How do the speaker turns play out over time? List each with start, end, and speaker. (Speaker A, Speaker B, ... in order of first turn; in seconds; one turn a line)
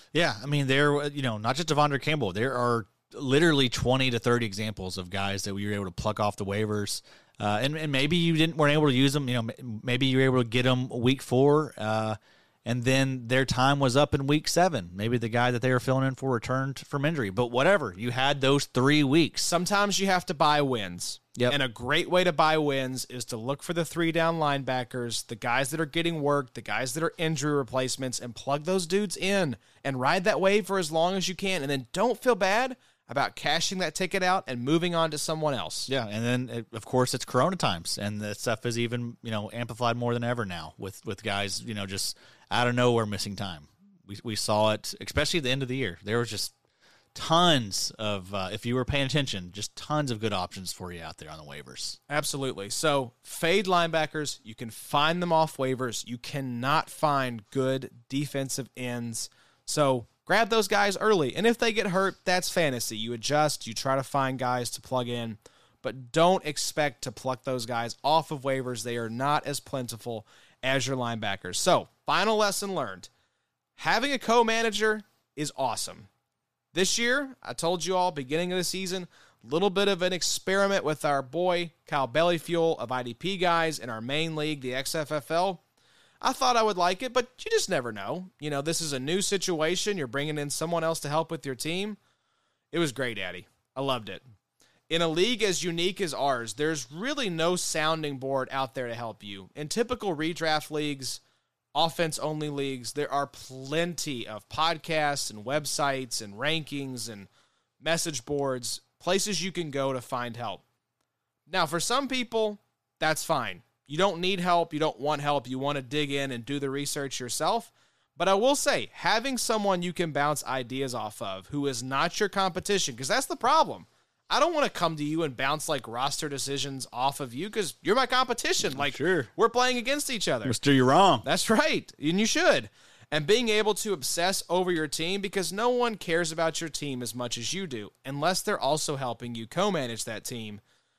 Speaker A: 0.1-19.5
Speaker B: 19.4-35.9
Speaker A: 35.9-46.5
Speaker A: 47.1-52.0
Speaker B: 52.1-73.1
Speaker B: 73.8-76.1
Speaker B: 76.7-85.6
Speaker B: 86.2-92.0
Speaker B: 92.7-94.2
Speaker B: 94.9-101.2
Speaker B: 101.7-107.3
Speaker B: 107.8-110.6
Speaker B: 111.5-130.6
Speaker A: 128.6-129.3
Speaker A: 130.4-131.2
Speaker B: 131.2-140.6